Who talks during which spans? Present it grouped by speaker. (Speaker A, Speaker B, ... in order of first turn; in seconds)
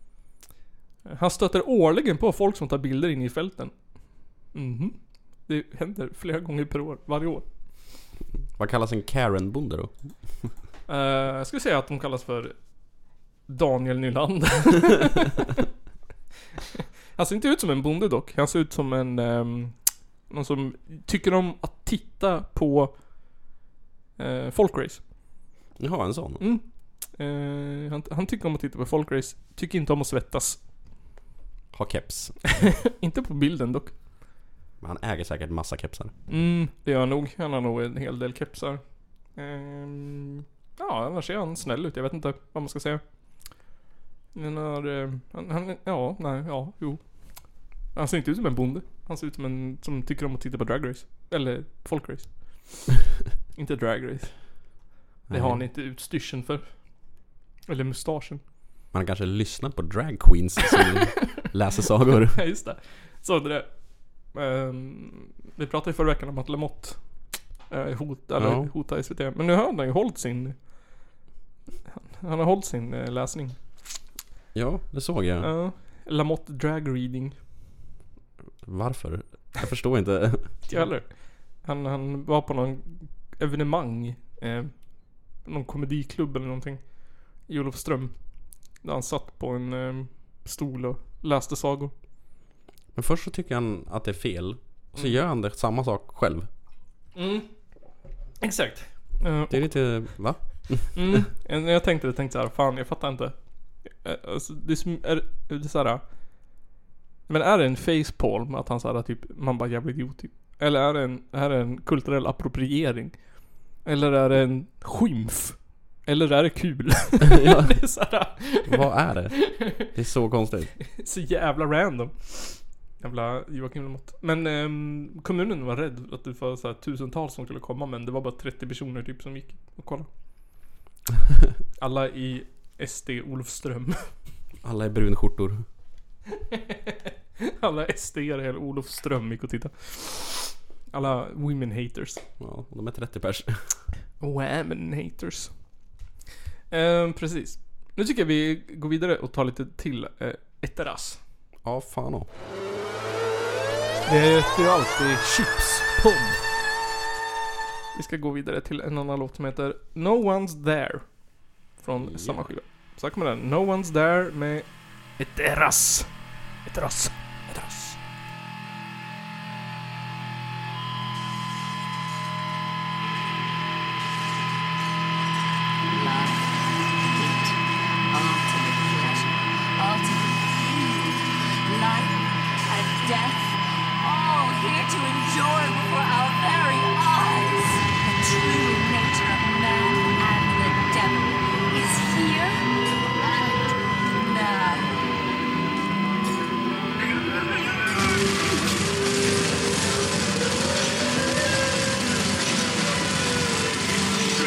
Speaker A: 1.0-3.8, 4.5-7.5, 10.9-12.6, 13.5-15.5, 17.1-22.9, 24.2-25.0, 26.4-30.6, 32.6-33.9, 36.3-38.8, 39.3-43.0, 44.3-52.9, 53.5-57.0, 57.7-58.4, 62.3-70.7, 71.9-73.8, 75.4-77.4, 80.7-84.8, 85.3-88.2, 88.8-91.9, 97.1-97.5, 98.4-100.1, 100.9-106.0, 107.3-119.8, 120.9-130.1, 131.8-134.1, 136.4-142.2, 144.2-145.5, 146.7-151.2, 154.1-156.4, 157.9-161.2, 161.8-166.1, 166.6-168.0
Speaker B: 8.6-10.5, 25.8-26.4, 31.7-32.4, 34.8-36.1, 55.3-55.6, 58.9-62.4, 68.4-68.7, 74.5-75.5, 78.6-80.8, 92.9-96.5, 99.5-101.3, 117.4-117.7, 118.7-120.7, 134.6-135.6, 142.4-143.8, 151.6-152.3, 162.0-162.4
Speaker C: 175.8-177.6, 178.1-192.6, 193.1-195.0